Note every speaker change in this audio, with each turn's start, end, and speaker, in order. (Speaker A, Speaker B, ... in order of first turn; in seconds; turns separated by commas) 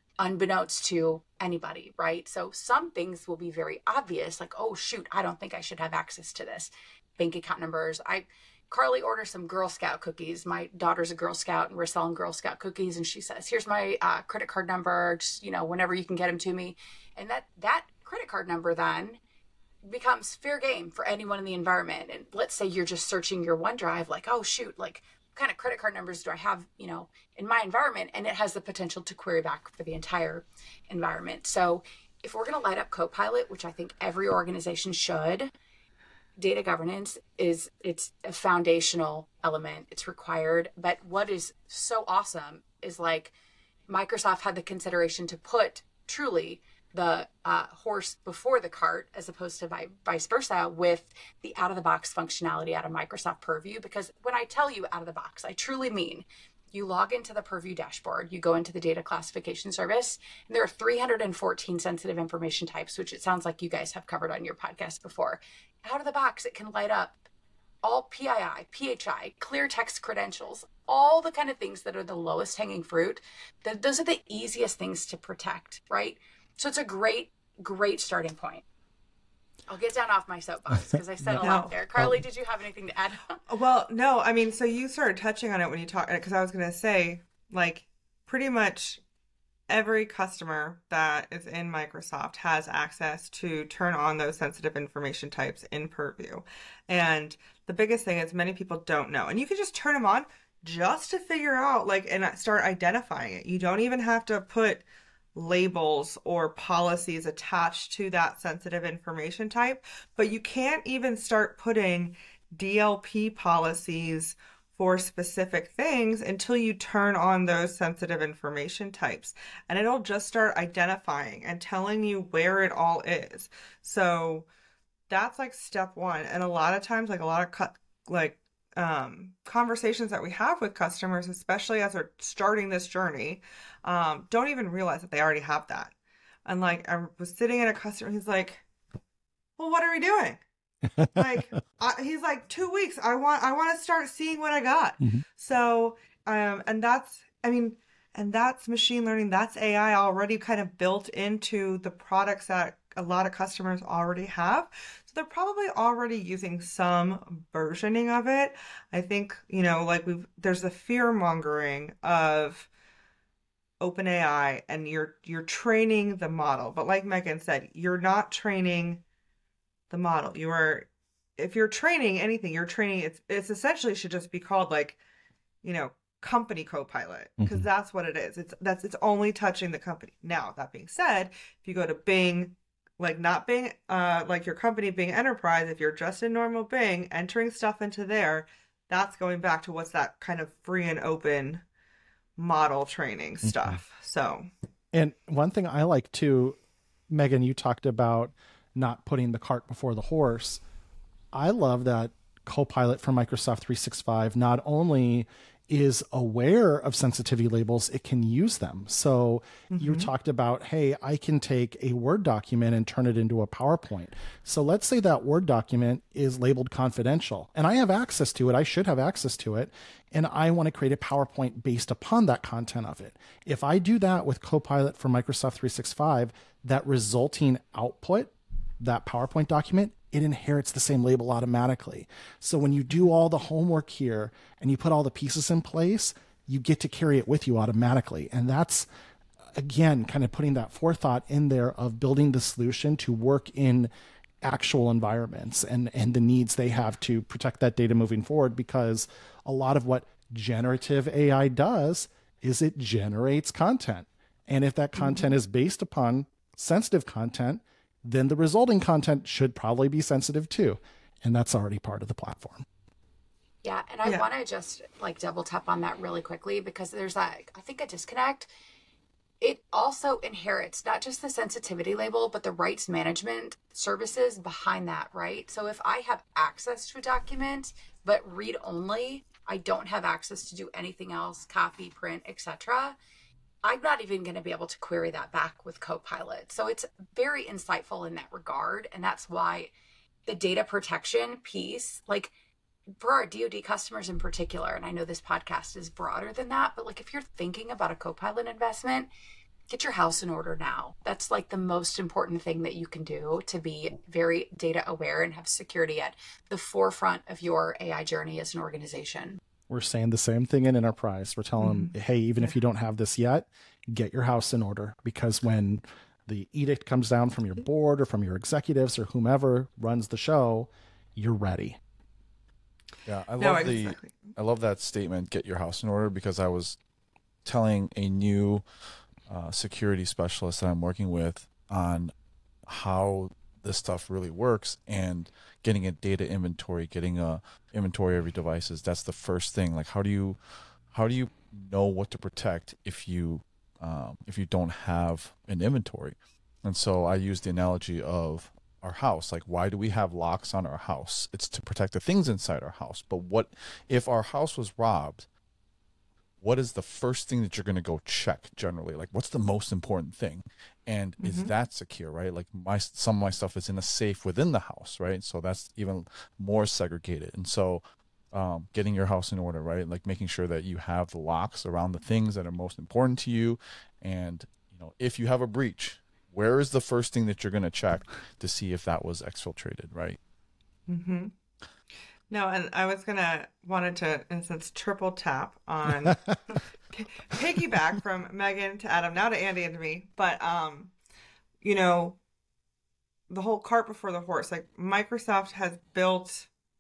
Speaker A: 0.2-19.2, Speaker A: 19.8-35.5, Speaker A: 36.4-43.3, Speaker A: 43.9-67.2, Speaker A: 67.8-78.7, Speaker A: 79.7-83.4, Speaker B: 81.4-81.7, Speaker B: 83.5-89.0, Speaker B: 89.7-124.5, Speaker B: 125.1-135.9, Speaker B: 136.5-138.7, Speaker B: 139.6-140.4, Speaker C: 141.0-141.2, Speaker B: 141.2-162.7, Speaker B: 163.8-169.0, Speaker B: 169.9-175.0, Speaker B: 175.6-191.7, Speaker C: 177.4-177.7, Speaker B: 192.4-194.5, Speaker C: 193.4-193.8, Speaker C: 194.9-196.6, Speaker C: 197.1-200.6, Speaker C: 201.3-238.9, Speaker B: 209.7-210.1, Speaker C: 239.5-243.9, Speaker C: 244.4-262.6, Speaker B: 255.0-255.4, Speaker A: 263.6-268.5, Speaker A: 269.4-283.0, Speaker A: 283.6-289.7, Speaker A: 290.3-292.3, Speaker A: 293.0-299.1, Speaker A: 299.7-309.4, Speaker C: 309.7-321.8, Speaker B: 311.6-312.6, Speaker D: 323.1-326.8, Speaker B: 323.4-324.3, Speaker D: 327.4-328.6, Speaker D: 329.3-332.1, Speaker D: 332.7-340.4, Speaker D: 340.9-355.3, Speaker D: 356.4-380.2, Speaker B: 361.2-361.5, Speaker B: 380.9-381.3, Speaker B: 382.3-390.9, Speaker C: 386.1-386.3, Speaker B: 391.6-392.2, Speaker B: 393.3-396.5